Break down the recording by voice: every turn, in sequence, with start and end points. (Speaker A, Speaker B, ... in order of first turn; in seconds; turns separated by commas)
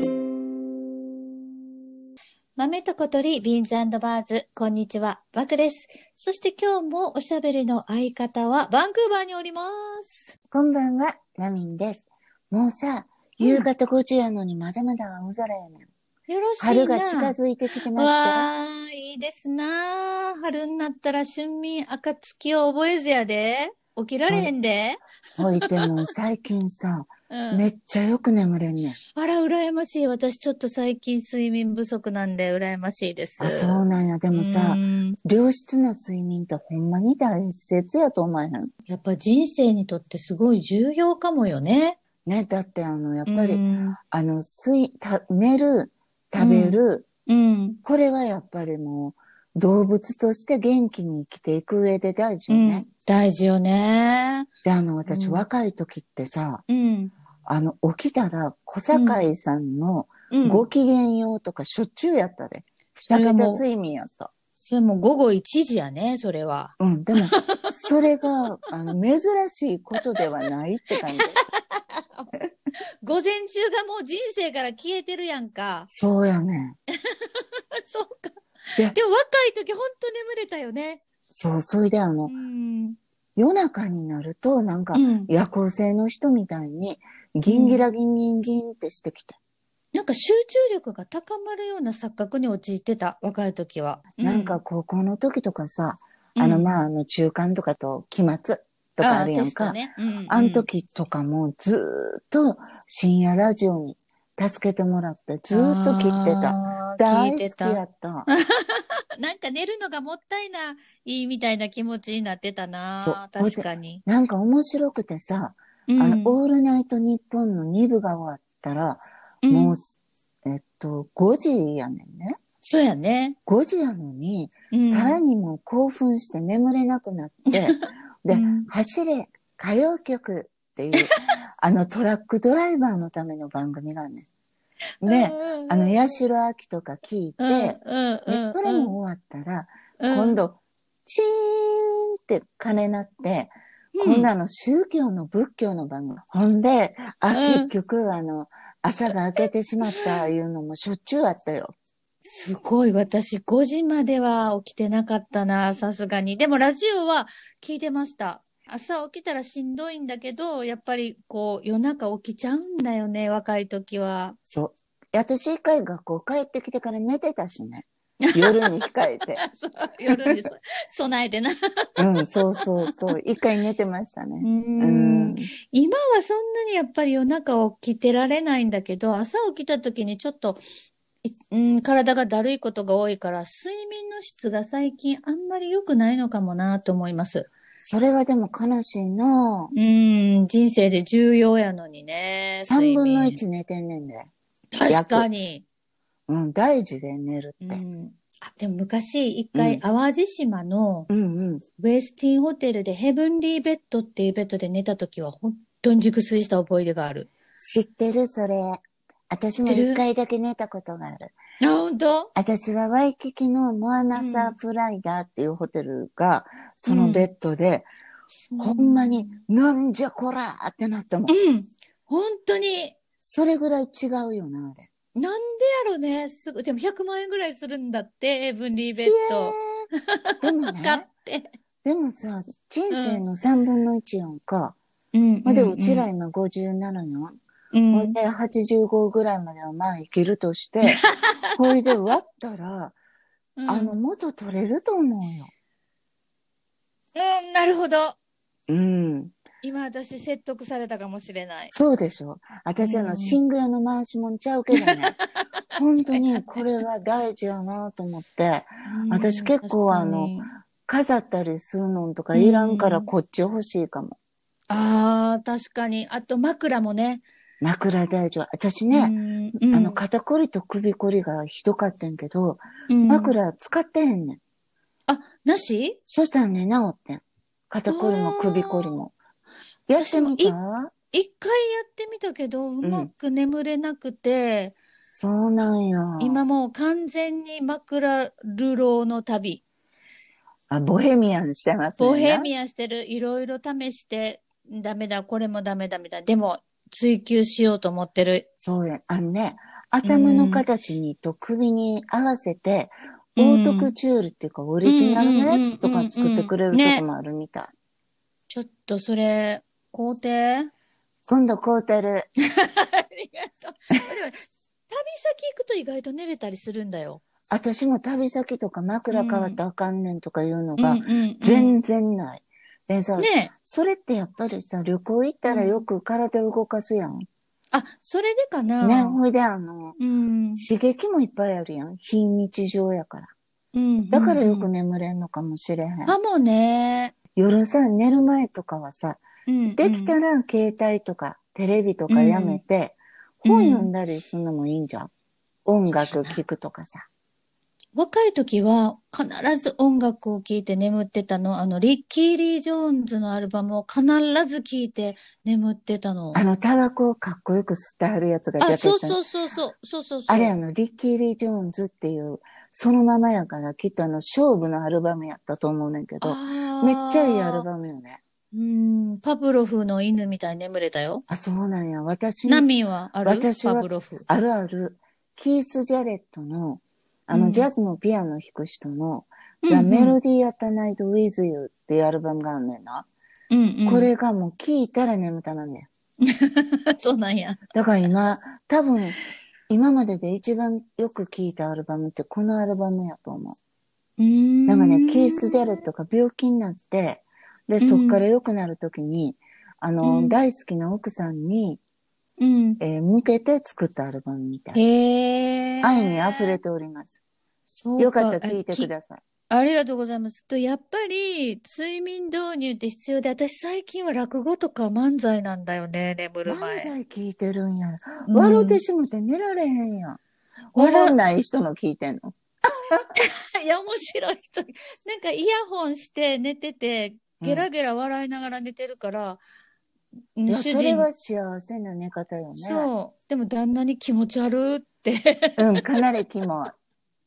Speaker A: 2.6-10.3, Speaker B: 10.5-15.9, Speaker A: 13.4-13.7, Speaker A: 16.3-17.4, Speaker B: 16.6-18.5, Speaker A: 17.9-26.1, Speaker B: 24.3-24.5, Speaker B: 25.4-29.0, Speaker A: 27.3-27.7, Speaker A: 29.1-35.2, Speaker B: 33.4-38.7, Speaker A: 38.9-42.0, Speaker B: 42.3-47.1, Speaker A: 43.3-44.0, Speaker A: 46.4-47.8, Speaker B: 47.8-52.9, Speaker A: 52.5-54.5, Speaker B: 54.6-56.6, Speaker A: 55.1-55.5, Speaker A: 56.7-57.1, Speaker B: 57.5-64.3, Speaker A: 58.9-59.2, Speaker A: 60.3-60.7, Speaker A: 63.0-63.6, Speaker A: 64.6-67.7, Speaker B: 66.8-71.4, Speaker A: 70.0-70.3, Speaker A: 70.9-72.3, Speaker A: 73.0-75.9, Speaker B: 75.9-76.8, Speaker A: 77.1-81.0, Speaker B: 81.3-82.3, Speaker A: 82.3-83.0, Speaker B: 83.4-89.4, Speaker A: 84.9-85.3, Speaker A: 87.5-87.8, Speaker A: 89.9-94.6, Speaker B: 94.2-108.3, Speaker A: 96.4-96.8, Speaker A: 99.0-100.7, Speaker A: 105.5-114.0, Speaker B: 113.0-122.4, Speaker A: 115.9-116.4, Speaker A: 119.4-119.8, Speaker A: 122.6-123.4, Speaker B: 123.5-134.3, Speaker A: 124.7-125.2, Speaker A: 127.5-128.7, Speaker A: 135.0-136.0, Speaker B: 135.0-151.7, Speaker A: 137.4-138.9, Speaker A: 140.0-140.4, Speaker A: 143.9-144.3, Speaker A: 147.3-147.7, Speaker A: 149.4-150.3, Speaker A: 152.2-164.4, Speaker B: 164.5-169.4, Speaker A: 168.2-173.1, Speaker B: 172.0-175.5, Speaker A: 174.4-180.7, Speaker A: 181.2-187.5, Speaker B: 187.8-189.7, Speaker A: 189.7-193.4, Speaker B: 192.7-194.3, Speaker A: 194.7-195.6, Speaker B: 194.9-195.3, Speaker B: 196.3-197.8, Speaker A: 197.6-201.1, Speaker B: 199.5-199.8, Speaker B: 201.1-201.7, Speaker A: 201.8-207.3, Speaker B: 207.6-211.4, Speaker A: 209.7-210.0, Speaker A: 211.6-212.3, Speaker B: 212.3-217.9, Speaker A: 214.1-214.6, Speaker A: 216.9-217.3, Speaker A: 218.5-219.4, Speaker B: 218.6-221.3, Speaker A: 221.3-223.0, Speaker B: 223.2-224.9, Speaker A: 225.2-229.6, Speaker B: 229.0-229.9, Speaker A: 230.1-231.5, Speaker B: 230.4-231.1, Speaker B: 231.8-234.8, Speaker A: 232.9-233.2, Speaker A: 235.1-236.1, Speaker B: 235.4-237.4, Speaker A: 237.7-238.2, Speaker B: 237.9-241.0, Speaker A: 240.8-241.4, Speaker B: 241.6-243.0, Speaker A: 243.6-244.0, Speaker B: 243.7-245.5, Speaker A: 247.2-248.2, Speaker B: 248.7-249.3, Speaker A: 249.6-251.7, Speaker B: 251.7-255.2, Speaker A: 252.8-253.4, Speaker A: 254.8-255.2, Speaker B: 255.7-264.2, Speaker A: 256.1-256.7, Speaker A: 258.9-260.5, Speaker A: 262.3-263.1, Speaker A: 264.7-267.2, Speaker B: 267.6-269.1, Speaker A: 268.9-270.0, Speaker B: 269.7-274.4, Speaker A: 272.9-273.4, Speaker A: 275.1-276.0, Speaker B: 276.1-279.1, Speaker A: 277.9-279.0, Speaker B: 279.9-280.9, Speaker A: 280.0-280.6, Speaker A: 281.1-284.8, Speaker B: 282.8-283.1, Speaker B: 285.2-286.5, Speaker A: 286.2-289.6, Speaker B: 290.7-292.5, Speaker A: 292.0-298.5, Speaker B: 298.6-307.7, Speaker A: 300.0-300.6, Speaker A: 303.4-303.9, Speaker A: 304.8-307.1, Speaker A: 308.5-310.7, Speaker B: 311.3-312.3, Speaker A: 312.4-317.2, Speaker B: 317.5-327.3, Speaker A: 319.1-319.6, Speaker A: 320.8-321.8, Speaker A: 323.2-323.5, Speaker A: 325.5-325.9, Speaker A: 327.7-329.2, Speaker B: 328.8-330.0, Speaker A: 330.0-330.7, Speaker B: 330.6-333.3, Speaker A: 333.7-334.7, Speaker B: 334.1-336.2, Speaker A: 336.1-337.1, Speaker B: 337.4-339.2, Speaker A: 339.5-340.2, Speaker B: 339.8-345.1, Speaker A: 342.1-342.6, Speaker A: 343.4-343.9, Speaker B: 345.7-347.1, Speaker A: 345.9-346.4, Speaker A: 347.9-356.4, Speaker B: 356.3-359.2, Speaker A: 358.6-360.6, Speaker B: 360.3-368.2, Speaker A: 366.2-367.7, Speaker A: 368.5-371.2, Speaker B: 371.3-372.7, Speaker A: 372.5-374.2, Speaker B: 373.2-383.1, Speaker A: 377.3-377.7, Speaker A: 379.6-380.2, Speaker A: 383.5-384.1, Speaker B: 383.9-385.9, Speaker A: 386.2-387.6, Speaker B: 387.7-389.2, Speaker B: 389.7-393.6, Speaker A: 394.2-395.8, Speaker B: 394.7-401.8, Speaker A: 397.8-398.2, Speaker A: 400.0-400.4, Speaker A: 402.4-402.8, Speaker B: 402.8-404.8, Speaker A: 404.7-406.6, Speaker B: 405.8-407.2, Speaker A: 407.7-408.9, Speaker B: 408.0-409.2, Speaker A: 409.5-416.9, Speaker B: 416.5-420.2, Speaker A: 418.3-418.8, Speaker B: 420.7-422.4, Speaker A: 420.8-421.2, Speaker A: 422.9-429.4, Speaker B: 427.4-427.7, Speaker A: 430.4-431.1, Speaker B: 430.5-432.9, Speaker A: 432.6-435.6, Speaker B: 435.6-436.7